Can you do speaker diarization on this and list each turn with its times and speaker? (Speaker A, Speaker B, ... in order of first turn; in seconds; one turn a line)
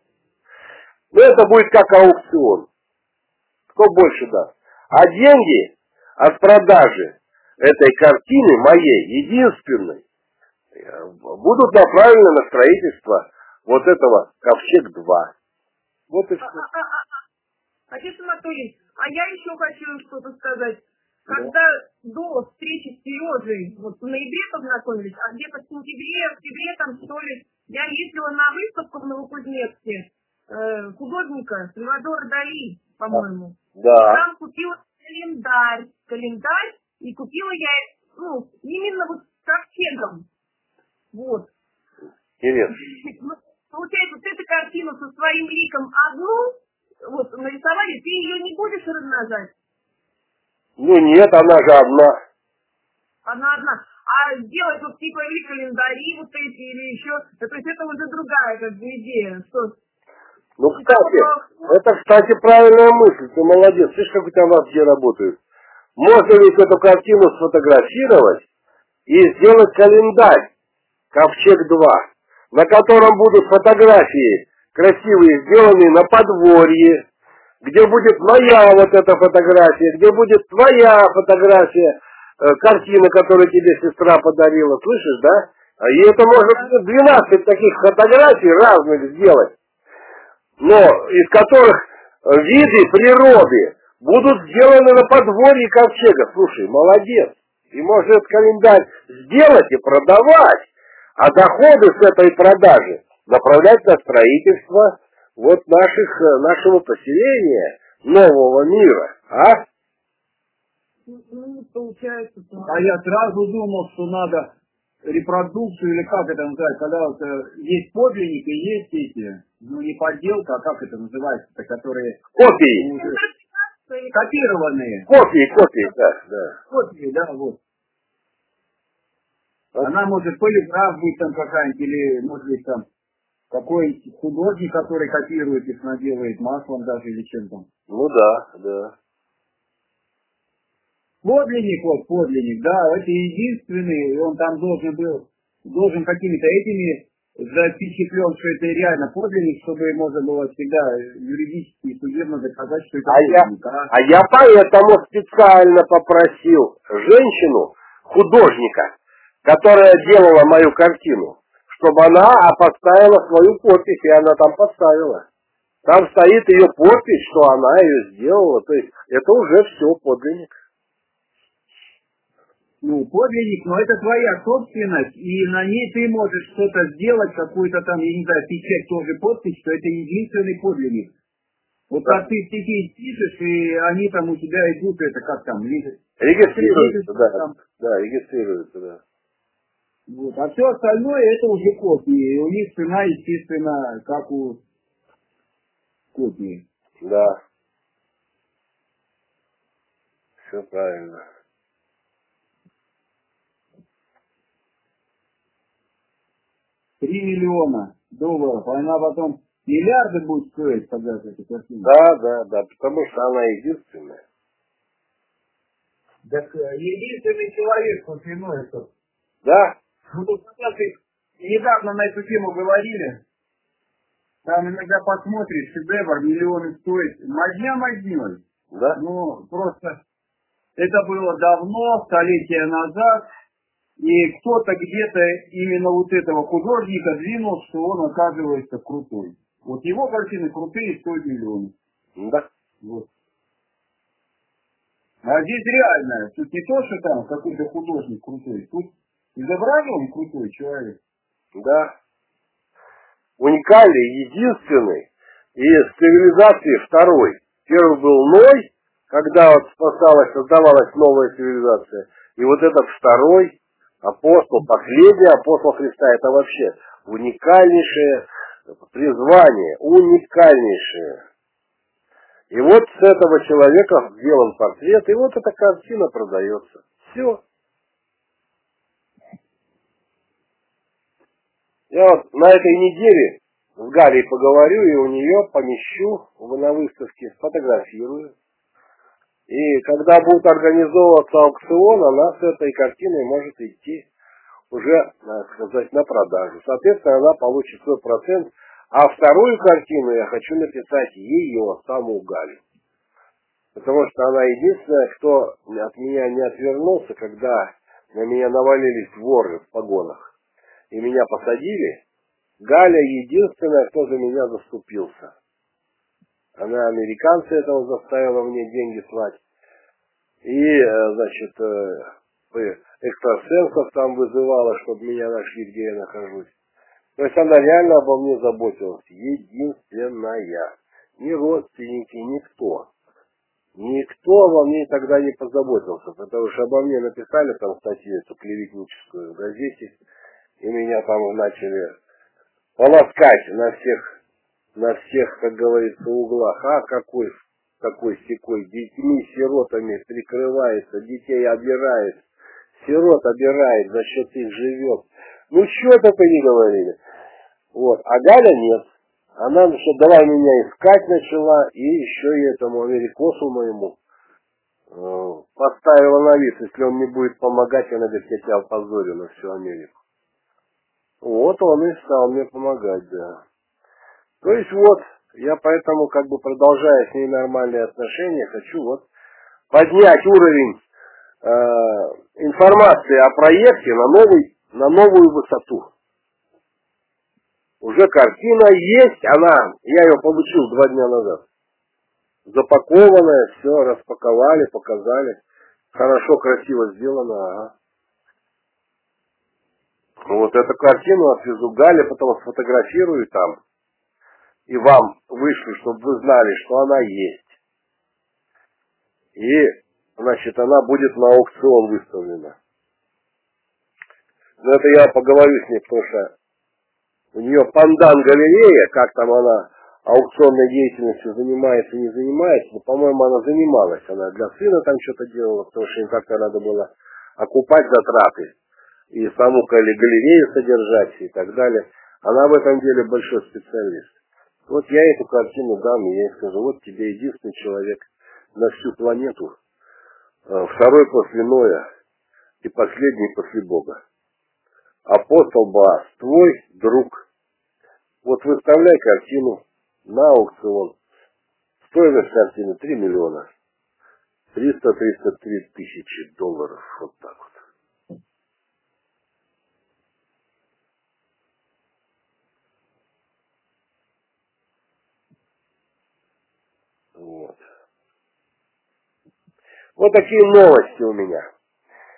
Speaker A: 1.1-2.7
Speaker A: 3.8-10.0
Speaker A: 10.8-15.3
Speaker A: 16.1-16.6
Speaker B: 16.4-17.1
Speaker B: 17.9-40.3
Speaker A: 21.3-21.5
Speaker A: 33.8-34.2
Speaker B: 41.1-41.5
Speaker A: 42.4-42.8
Speaker B: 42.8-49.5
Speaker A: 50.8-52.2
Speaker B: 53.2-59.8
Speaker A: 60.6-65.4
Speaker B: 60.7-61.7
Speaker A: 66.0-68.5
Speaker A: 69.1-70.5
Speaker A: 71.1-77.0
Speaker A: 77.6-89.5
Speaker A: 90.6-109.7
Speaker B: 111.1-112.8
Speaker C: 112.7-114.5
Speaker C: 115.0-122.2
Speaker A: 122.4-122.9
Speaker C: 122.8-123.2
Speaker B: 123.0-124.2
Speaker C: 124.1-125.1
Speaker A: 125.1-126.5
Speaker C: 126.7-127.6
Speaker C: 129.8-132.9
Speaker C: 133.5-137.7
Speaker A: 137.9-138.9
Speaker C: 141.2-153.9
Speaker A: 153.1-165.2
Speaker A: 165.8-170.5
Speaker C: 172.8-181.1
Speaker C: 181.9-187.6
Speaker A: 186.2-189.0
Speaker C: 190.1-194.6
Speaker C: 196.1-196.7
Speaker A: 197.0-197.4
Speaker A: 200.5-201.2
Speaker C: 207.0-211.9
Speaker A: 211.8-214.2
Speaker C: 216.3-218.9
Speaker A: 219.4-219.8
Speaker C: 220.1-223.2
Speaker C: 224.4-228.4
Speaker A: 228.7-229.0
Speaker C: 228.9-230.0
Speaker C: 230.8-233.3
Speaker C: 234.0-241.7
Speaker A: 242.2-242.4
Speaker C: 245.2-251.0
Speaker A: 251.6-251.9
Speaker A: 253.4-268.2
Speaker A: 268.9-271.2
Speaker A: 272.5-277.4
Speaker A: 281.9-288.3
Speaker A: 289.5-294.1
Speaker A: 294.7-302.6
Speaker A: 303.8-310.3
Speaker A: 310.9-312.0
Speaker A: 312.6-315.3
Speaker A: 316.6-319.4
Speaker A: 320.4-326.5
Speaker A: 327.2-332.9
Speaker A: 333.8-340.0
Speaker A: 340.6-341.9
Speaker A: 342.8-344.1
Speaker A: 344.8-352.2
Speaker A: 352.8-357.0
Speaker A: 357.7-358.9
Speaker A: 359.4-364.0
Speaker A: 364.9-369.9
Speaker A: 371.2-373.4
Speaker A: 374.4-379.1
Speaker A: 379.7-380.8
Speaker A: 381.4-385.9
Speaker A: 387.8-391.5
Speaker A: 392.5-395.4
Speaker A: 395.9-397.7
Speaker A: 400.3-403.6
Speaker A: 404.7-407.5
Speaker A: 409.4-412.6
Speaker A: 414.6-416.3
Speaker A: 417.3-428.5
Speaker A: 429.1-434.1
Speaker A: 434.7-439.6
Speaker A: 440.5-441.9
Speaker A: 442.6-444.0
Speaker A: 445.1-447.3
Speaker A: 448.2-451.0
Speaker A: 451.8-453.5
Speaker A: 454.5-457.6
Speaker A: 467.2-467.6
Speaker A: 470.0-471.5